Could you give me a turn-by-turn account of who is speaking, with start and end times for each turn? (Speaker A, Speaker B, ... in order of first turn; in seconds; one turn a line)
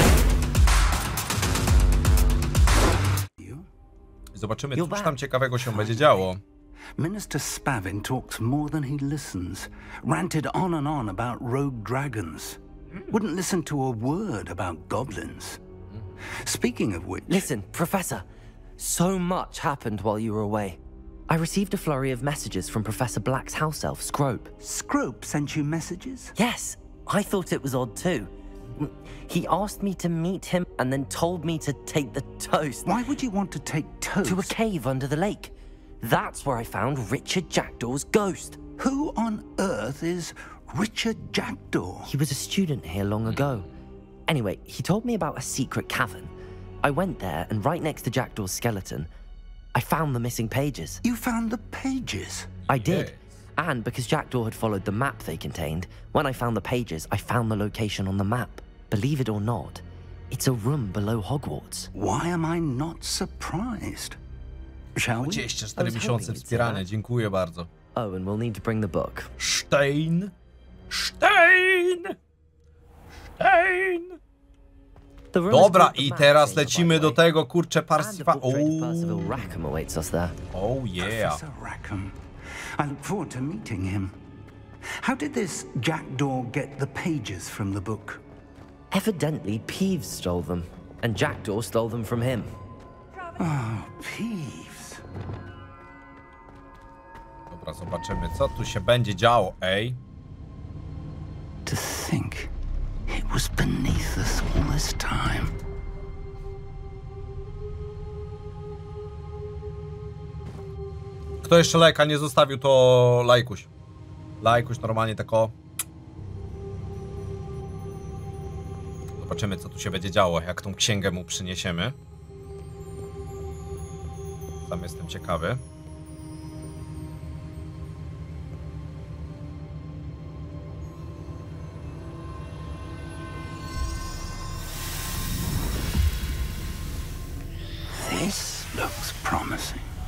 Speaker A: 3.4-3.7
Speaker B: 4.3-6.4
Speaker C: 4.8-5.2
Speaker A: 7.0-12.6
Speaker A: 13.1-15.6
Speaker A: 16.3-17.5
Speaker C: 17.3-18.3
Speaker C: 18.8-24.5
Speaker A: 24.6-26.3
Speaker C: 26.4-32.9
Speaker A: 32.9-34.5
Speaker C: 34.2-38.6
Speaker A: 38.8-42.1
Speaker C: 42.1-43.7
Speaker B: 43.2-43.7
Speaker C: 44.3-46.3
Speaker C: 46.8-49.1
Speaker C: 49.8-51.0
Speaker A: 51.0-52.5
Speaker B: 52.7-53.3
Speaker C: 52.7-61.9
Speaker A: 62.0-64.2
Speaker A: 65.0-65.5
Speaker B: 65.2-67.7
Speaker C: 65.8-66.8
Speaker C: 68.0-69.3
Speaker B: 69.4-70.3
Speaker B: 70.9-72.2
Speaker B: 73.4-74.2
Speaker C: 75.3-77.3
Speaker B: 75.5-79.4
Speaker C: 78.0-80.4
Speaker B: 80.5-81.4
Speaker A: 81.0-82.2
Speaker A: 82.8-84.2
Speaker A: 85.0-88.2
Speaker C: 88.9-92.5
Speaker A: 93.4-95.0
Speaker B: 97.5-100.0
Speaker A: 101.7-102.5
Speaker A: 103.1-105.5
Speaker B: 111.4-113.7
Speaker B: 114.4-115.5
Speaker B: 119.2-122.0
Speaker B: 124.7-125.6
Speaker A: 137.9-139.9